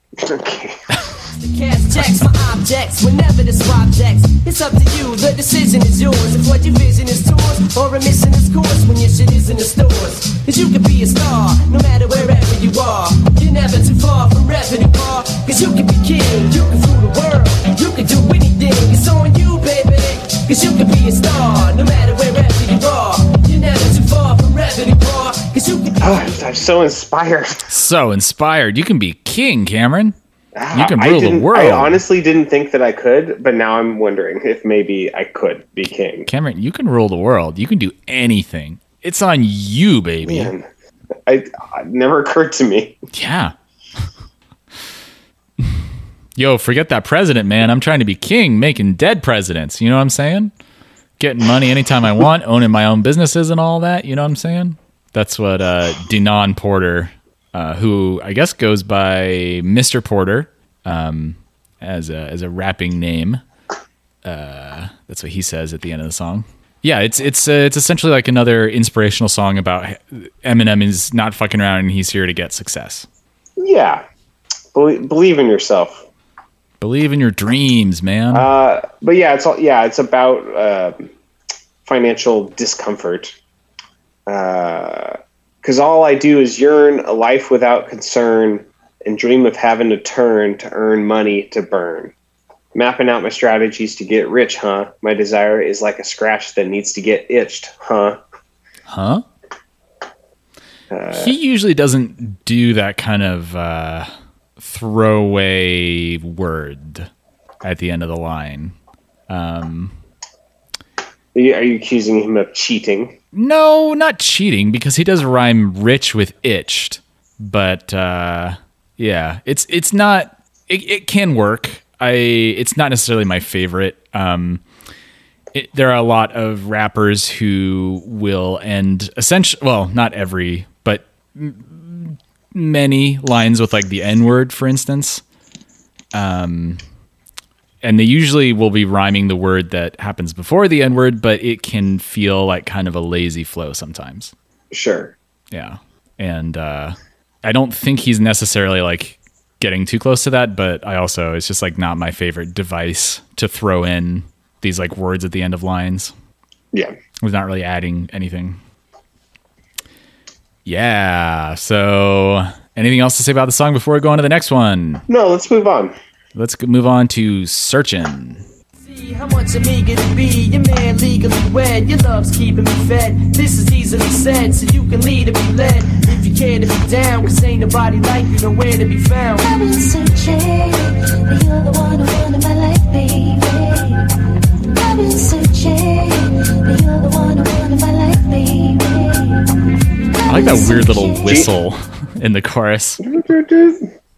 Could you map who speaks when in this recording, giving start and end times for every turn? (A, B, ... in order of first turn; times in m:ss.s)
0:00.2-0:01.1 A
0:01.1-0:26.5 B
0:26.0-0:27.6 A
0:27.7-0:30.2 C
0:30.6-0:36.3 A
0:30.7-0:32.0 C
0:36.3-0:40.5 C
0:40.2-0:40.6 A
0:41.3-0:43.0 A
0:43.1-0:43.6 C
0:45.6-0:50.5 C
0:51.2-1:03.4 C
1:04.2-1:13.1 C
1:13.6-1:14.0 A
1:14.8-1:16.1 A
1:16.8-1:18.5 C
1:18.3-1:21.1 A
1:21.8-1:23.4 A
1:24.3-1:32.1 A
1:32.8-1:38.2 A
1:38.9-1:39.2 C
1:40.9-1:41.3 A
1:41.1-1:47.1 C
1:47.6-1:48.8 C
1:49.3-1:50.0 C
1:51.4-1:53.2 A
1:53.3-2:04.6 C
2:05.5-2:15.2 C
2:16.1-2:16.8 C
2:17.8-2:24.3 C
2:24.7-2:25.2 A
2:25.5-2:36.1 C
2:37.2-2:38.6 C
2:40.6-2:45.0 C
2:45.1-2:45.9 A
2:46.4-2:48.4 C
2:48.8-2:59.6 B
2:59.5-3:04.0 D
3:04.8-3:09.4 D
3:10.3-3:13.0 C
3:10.3-3:11.2 D
3:11.2-3:11.5 A
3:13.0-3:13.9 A